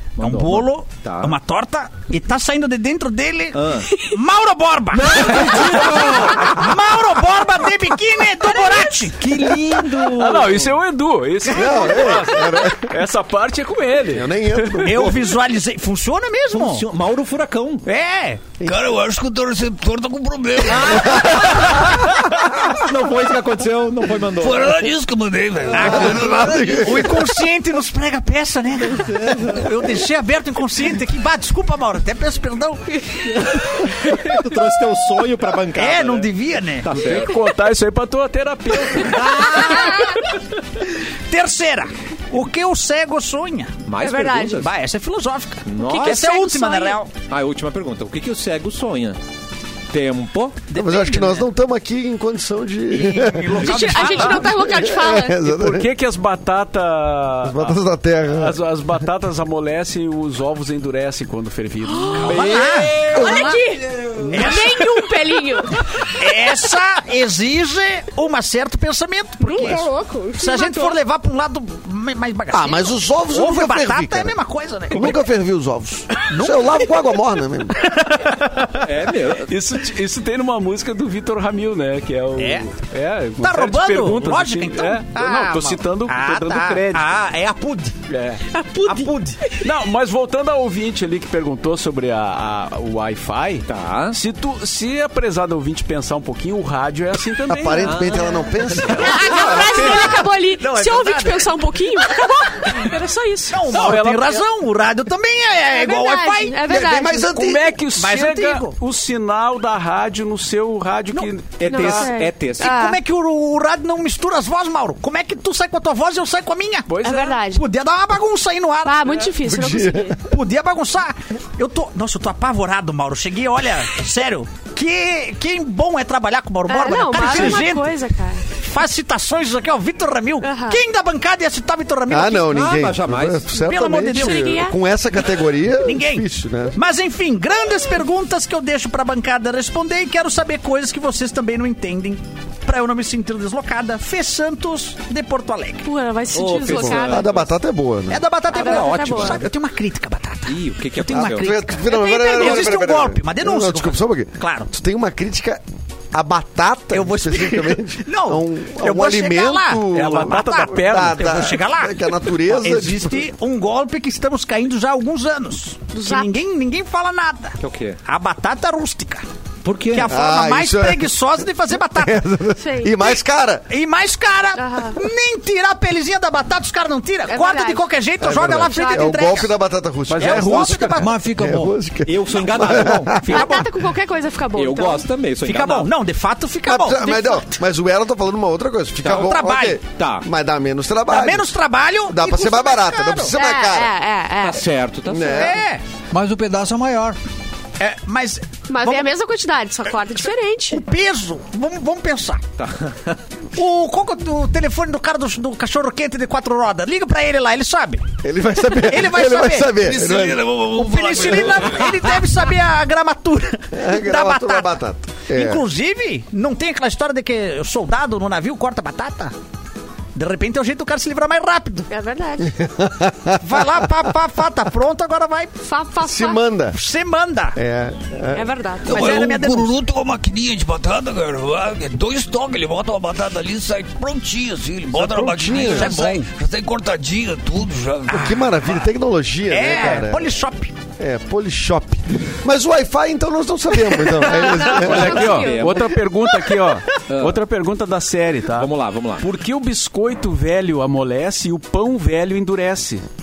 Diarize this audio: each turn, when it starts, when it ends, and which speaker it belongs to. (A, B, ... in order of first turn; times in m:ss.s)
0:00.2-0:01.4 A
0:00.2-0:09.5 B
0:03.5-0:03.9 A
0:04.9-0:06.8 A
0:09.2-0:10.5 A
0:09.3-0:10.5 C
0:10.1-0:15.0 D
0:11.5-0:12.9 E
0:11.5-0:11.9 B
0:14.1-0:15.2 E
0:14.8-0:16.8 B
0:16.5-0:17.8 A
0:17.8-0:18.4 B
0:18.6-0:21.3 F
0:20.6-0:24.9 A
0:24.3-0:26.9 F
0:25.7-0:26.2 A
0:25.7-0:33.0 B
0:25.8-0:27.3 E
0:28.8-0:29.9 A
0:33.2-0:36.3 A
0:35.8-0:36.9 B
0:36.8-0:37.4 A
0:37.0-0:39.4 D
0:38.9-0:40.1 A
0:39.8-0:40.1 G
0:41.3-0:43.9 B
0:43.9-0:44.7 A
0:44.0-0:44.6 G
0:44.5-0:47.1 B
0:45.6-0:46.3 A
0:45.8-0:47.0 G
0:47.3-0:49.2 A
0:49.9-0:50.6 A
0:50.7-0:51.5 B
0:50.7-0:53.6 E
0:52.9-0:54.6 B
0:53.5-0:55.4 G
0:54.6-0:55.9 E
0:55.4-0:57.8 D
0:57.4-0:58.6 E
0:58.3-1:02.2 D
1:01.8-1:05.8 G
1:02.2-1:03.6 B
1:02.2-1:04.4 A
1:04.2-1:04.9 B
1:06.1-1:15.2 B
1:09.4-1:10.9 G
1:12.5-1:14.4 E
1:14.9-1:17.9 E
1:16.3-1:16.8 B
1:18.1-1:18.3 B
1:18.7-1:19.5 A
1:19.5-1:27.1 D
1:22.4-1:22.7 B
1:23.4-1:28.0 B
1:28.1-1:28.4 D
1:28.5-1:29.6 G
1:28.8-1:29.4 B
1:29.6-1:38.1 D
1:33.6-1:34.2 A
1:37.5-1:39.7 E
1:37.8-1:39.7 A
1:39.0-1:43.7 G
1:39.1-1:41.5 B
1:43.5-1:48.8 B
1:43.7-1:44.4 D
1:45.7-1:47.5 G
1:46.7-1:47.3 E
1:47.2-1:51.9 D
1:51.6-1:52.8 A
1:51.6-1:53.0 G
1:52.6-1:59.3 B
1:56.9-1:57.4 D
1:57.0-1:57.6 G
1:58.8-2:00.2 G
1:59.4-2:00.2 E
2:00.2-2:08.0 B
2:06.7-2:08.5 G
2:08.5-2:12.7 B
2:10.4-2:10.8 G
2:12.1-2:16.8 E
2:12.5-2:13.5 A
2:13.5-2:14.6 B
2:14.1-2:14.8 G
2:15.8-2:25.9 B
2:25.8-2:27.3 G
2:26.3-2:27.5 A
2:26.9-2:28.3 E
2:28.1-2:34.7 B
2:28.5-2:29.4 G
2:28.5-2:29.5 A
2:30.4-2:31.5 A
2:31.1-2:43.2 E
2:32.3-2:32.7 A
2:36.9-2:49.2 B
2:39.9-2:41.5 D
2:45.9-2:46.3 G
2:47.6-2:48.0 A
2:49.6-2:50.2 A
2:49.9-2:52.2 B
2:50.0-2:53.7 E
2:52.6-2:53.0 G
2:53.7-2:59.5 B
2:54.6-2:55.0 G
2:57.3-2:57.9 G
2:58.2-3:03.3 E
2:58.4-2:59.5 G
3:00.1-3:00.9 D
3:00.2-3:01.1 B
3:00.9-3:01.8 C
3:02.0-3:03.7 A
3:02.5-3:03.8 B
3:03.1-3:05.1 G
3:04.5-3:05.9 A
3:05.4-3:07.4 B
3:06.6-3:11.5 E
3:09.0-3:09.3 A
3:09.0-3:09.8 B
3:10.0-3:10.2 A
3:11.1-3:13.3 B
3:12.0-3:13.9 E
3:13.3-3:14.7 G
3:14.4-3:15.6 A
3:15.0-3:15.6 E
3:15.2-3:15.8 B
3:16.1-3:17.2 C
3:17.8-3:19.1 B
3:18.7-3:20.8 G
3:20.7-3:22.4 B
3:22.6-3:23.2 A
3:23.5-3:28.0 B
3:28.2-3:30.4 E
3:28.7-3:29.9 B
3:29.8-3:31.9 F
3:30.7-3:34.8 B
3:33.7-3:35.6 E
3:35.3-3:39.3 B
3:40.1-3:41.9 B
3:41.9-3:42.6 G
3:42.5-3:43.9 E
3:43.4-3:45.6 B
3:45.6-3:46.4 G
3:46.0-3:46.8 E
3:46.7-3:47.6 B
3:47.5-3:48.6 E
3:48.3-3:49.1 G
3:48.8-3:49.8 B
3:48.8-3:58.2 F
3:54.9-3:56.0 E
3:55.5-3:56.2 B
3:58.1-3:58.9 B
3:58.1-4:00.3 E
3:59.5-4:00.7 B
4:01.0-4:05.3 E
4:03.9-4:05.8 G
4:04.7-4:13.0 D
4:05.0-4:06.0 A
4:07.1-4:07.4 A
4:08.5-4:09.3 A